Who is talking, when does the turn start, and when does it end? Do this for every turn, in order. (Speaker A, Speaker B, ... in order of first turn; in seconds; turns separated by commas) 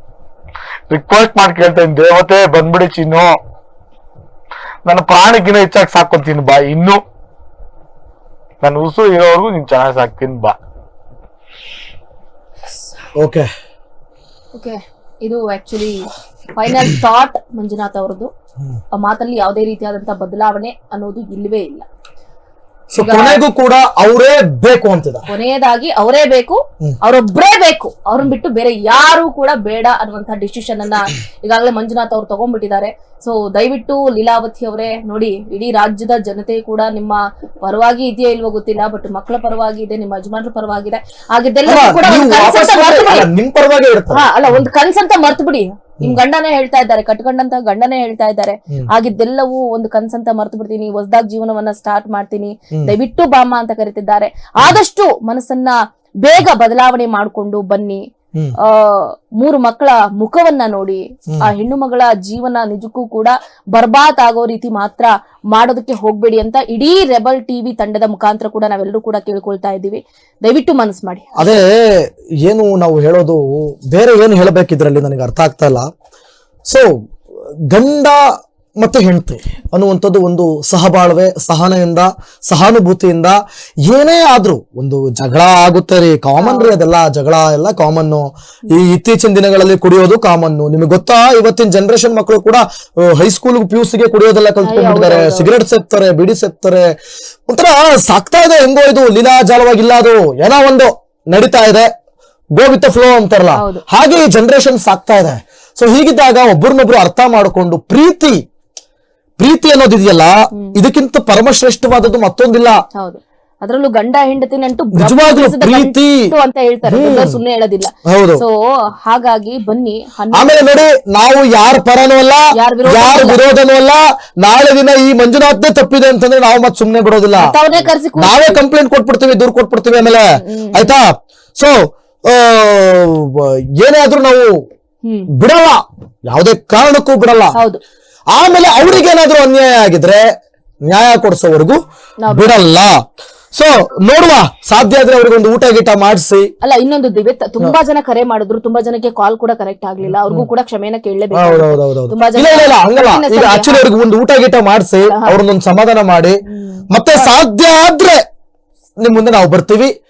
Speaker A: 0.9-3.3, Speaker A: 4.9-7.0, Speaker A: 8.6-10.6, Speaker B: 13.2-13.5, Speaker C: 14.6-18.3, Speaker C: 18.9-21.9, Speaker B: 22.9-25.3, Speaker C: 22.9-23.4, Speaker C: 25.3-43.2, Speaker B: 41.7-44.6, Speaker C: 44.1-58.0, Speaker C: 58.6-71.5, Speaker B: 71.4-75.9, Speaker B: 76.7-76.9, Speaker B: 77.7-97.0, Speaker C: 86.4-86.7, Speaker C: 94.7-95.5, Speaker B: 97.5-101.9, Speaker B: 102.6-108.4, Speaker B: 109.4-112.8, Speaker C: 113.0-120.6, Speaker B: 115.0-116.3, Speaker B: 116.9-117.4, Speaker B: 118.1-118.4, Speaker B: 120.3-127.5, Speaker C: 122.6-123.4, Speaker C: 127.4-128.6, Speaker B: 128.1-134.5, Speaker C: 130.6-130.9, Speaker B: 135.4-137.6, Speaker B: 138.3-140.3, Speaker B: 140.9-143.0, Speaker B: 143.5-146.5, Speaker C: 146.6-153.8, Speaker B: 150.1-150.5, Speaker B: 151.3-156.4, Speaker C: 156.5-157.3, Speaker B: 156.9-158.2, Speaker B: 159.0-159.9